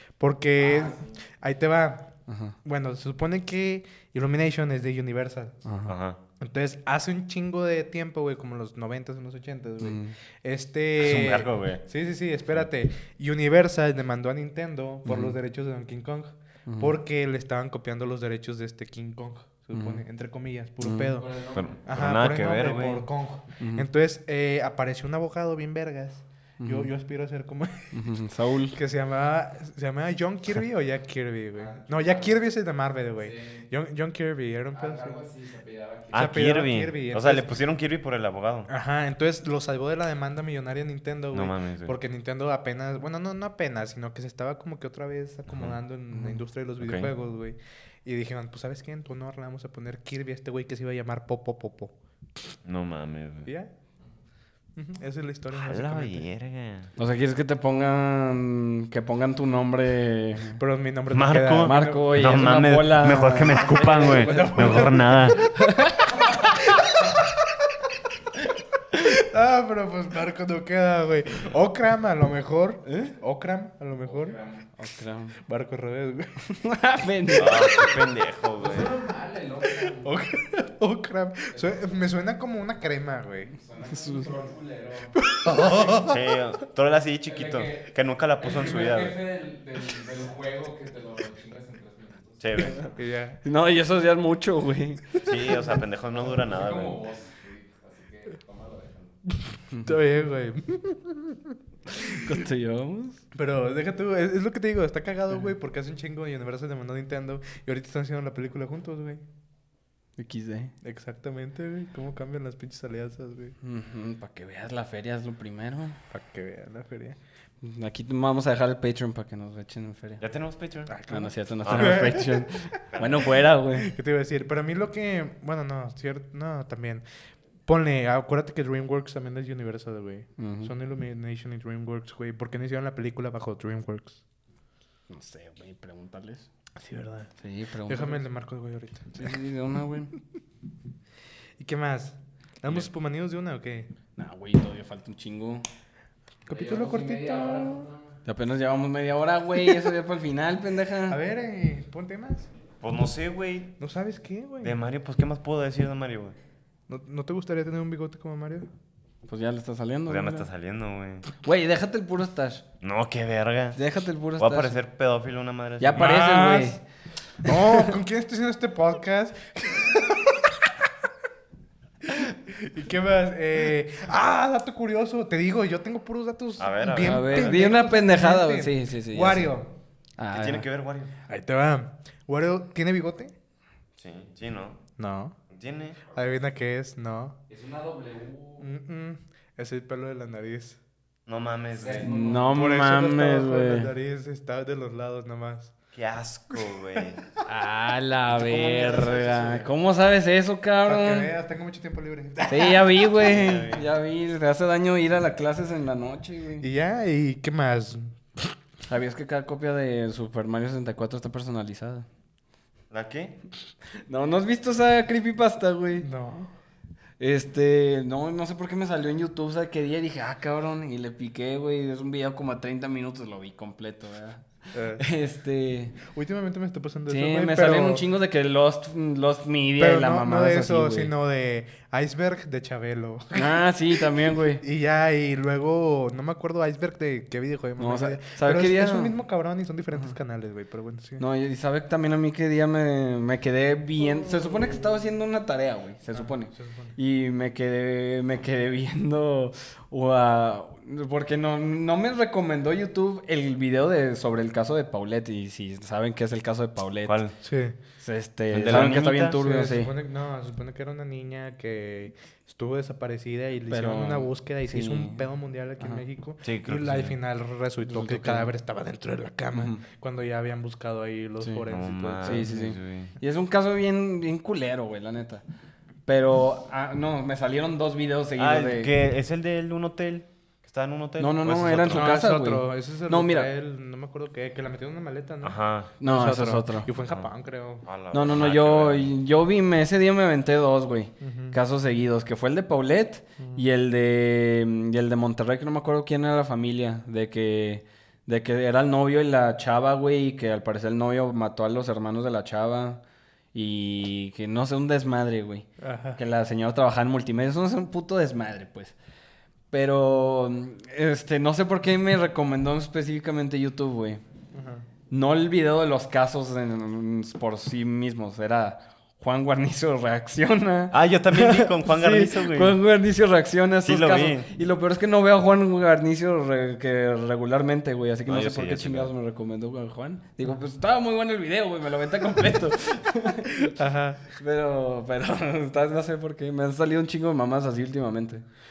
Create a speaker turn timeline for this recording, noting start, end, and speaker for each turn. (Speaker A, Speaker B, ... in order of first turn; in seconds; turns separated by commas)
Speaker A: 0.2-2.1, Speaker B: 0.6-1.1, Speaker C: 2.3-2.5, Speaker A: 2.6-5.6, Speaker C: 5.6-5.9, Speaker D: 5.9-6.2, Speaker A: 6.4-28.1, Speaker C: 9.8-10.1, Speaker D: 11.0-11.8, Speaker C: 15.0-15.3, Speaker C: 16.7-16.9, Speaker C: 19.7-20.0, Speaker C: 20.8-21.1, Speaker B: 21.1-21.8, Speaker D: 21.5-23.1, Speaker C: 23.6-23.9, Speaker C: 26.6-26.9, Speaker C: 27.9-28.8, Speaker A: 28.7-35.3, Speaker B: 31.6-32.3, Speaker B: 33.2-33.6, Speaker B: 34.7-36.4, Speaker D: 36.1-38.7, Speaker A: 36.1-37.6, Speaker A: 38.7-51.9, Speaker D: 41.3-42.0, Speaker D: 45.5-45.8, Speaker D: 46.8-47.1, Speaker D: 52.6-53.5, Speaker A: 53.5-53.7, Speaker A: 54.8-56.2, Speaker D: 55.5-56.9, Speaker C: 57.0-60.6, Speaker A: 60.6-62.5, Speaker D: 61.1-65.5, Speaker C: 61.6-64.9, Speaker A: 63.1-65.5, Speaker C: 65.5-66.1, Speaker A: 66.3-67.5, Speaker A: 68.9-74.4, Speaker C: 72.8-73.1, Speaker B: 74.0-74.7, Speaker C: 74.8-75.4, Speaker A: 75.4-76.4, Speaker C: 76.4-77.9, Speaker D: 77.3-79.0, Speaker B: 78.6-80.2, Speaker A: 79.9-83.5, Speaker B: 81.5-82.0, Speaker B: 83.5-86.0, Speaker C: 83.9-84.2, Speaker A: 85.1-86.2, Speaker D: 85.7-89.2, Speaker B: 87.2-87.9, Speaker B: 88.4-92.9, Speaker D: 92.4-92.8, Speaker A: 92.9-93.4, Speaker C: 93.4-95.2, Speaker D: 95.2-97.0, Speaker B: 96.1-99.1, Speaker A: 99.7-102.3, Speaker C: 101.9-103.2, Speaker A: 103.3-109.2, Speaker C: 110.2-110.7, Speaker A: 110.8-113.5, Speaker C: 113.6-116.0, Speaker A: 116.1-117.2, Speaker C: 117.6-120.2, Speaker D: 120.2-120.9, Speaker A: 120.9-122.7, Speaker C: 121.1-123.9, Speaker D: 121.6-122.2, Speaker D: 122.9-123.4, Speaker A: 123.7-127.0, Speaker A: 127.7-134.2, Speaker C: 130.4-130.7, Speaker C: 135.1-136.5, Speaker A: 136.8-137.3, Speaker C: 137.4-138.2, Speaker A: 137.9-139.4, Speaker C: 139.1-140.1, Speaker A: 141.6-143.9, Speaker C: 144.2-145.7, Speaker A: 146.4-147.9, Speaker B: 146.5-148.2, Speaker C: 148.2-151.2, Speaker A: 151.1-152.5, Speaker D: 152.8-153.7, Speaker A: 153.8-154.8, Speaker D: 154.6-156.3, Speaker A: 156.9-158.7, Speaker C: 159.2-160.5, Speaker D: 160.1-161.3, Speaker C: 161.4-162.6, Speaker D: 162.8-163.8, Speaker C: 163.7-164.8, Speaker D: 164.4-166.1, Speaker C: 165.8-166.8, Speaker A: 165.9-166.8, Speaker A: 167.4-170.9, Speaker C: 167.4-167.9, Speaker A: 172.0-179.7, Speaker D: 176.6-177.6, Speaker C: 176.9-179.5, Speaker C: 180.2-180.7, Speaker D: 180.3-181.1, Speaker A: 181.3-183.3, Speaker D: 184.0-184.8, Speaker A: 185.0-185.3, Speaker D: 185.5-186.0, Speaker A: 186.1-187.4, Speaker B: 187.5-188.6, Speaker A: 188.6-190.8, Speaker D: 191.2-192.2, Speaker B: 191.7-192.6, Speaker C: 192.0-193.9, Speaker A: 192.4-195.7, Speaker D: 195.9-197.2, Speaker C: 197.4-201.3, Speaker D: 198.3-199.7, Speaker A: 200.8-203.3, Speaker C: 202.5-206.7, Speaker D: 203.1-203.9, Speaker A: 206.6-208.5, Speaker C: 208.9-212.1, Speaker D: 212.9-213.4, Speaker C: 214.1-216.1, Speaker A: 216.0-216.5, Speaker C: 217.2-225.9, Speaker A: 224.7-225.1, Speaker A: 226.0-228.0, Speaker C: 227.1-231.1, Speaker A: 229.8-233.7, Speaker C: 233.3-234.6, Speaker A: 234.6-241.2, Speaker C: 237.8-239.1, Speaker C: 241.2-257.2, Speaker A: 244.0-244.8, Speaker A: 246.1-246.9, Speaker D: 257.1-257.3, Speaker A: 257.4-257.8, Speaker C: 258.0-259.9, Speaker D: 258.5-259.4, Speaker A: 259.3-272.5, Speaker C: 263.7-265.2, Speaker D: 266.4-267.1, Speaker C: 267.8-268.5, Speaker C: 269.5-269.8, Speaker D: 271.7-273.1, Speaker C: 272.2-275.4, Speaker C: 276.1-278.9, Speaker D: 278.4-282.1, Speaker C: 281.2-283.5, Speaker A: 281.9-287.9, Speaker D: 285.4-285.9, Speaker C: 286.0-286.9, Speaker D: 287.8-289.1, Speaker C: 288.1-303.0, Speaker A: 291.2-291.6, Speaker C: 303.5-305.7, Speaker A: 305.8-306.2, Speaker C: 306.2-308.9, Speaker C: 309.7-314.2, Speaker A: 314.5-314.9, Speaker C: 315.1-333.8, Speaker D: 320.9-322.8, Speaker D: 323.8-324.5, Speaker D: 328.2-329.1, Speaker A: 333.7-334.2, Speaker C: 334.3-338.4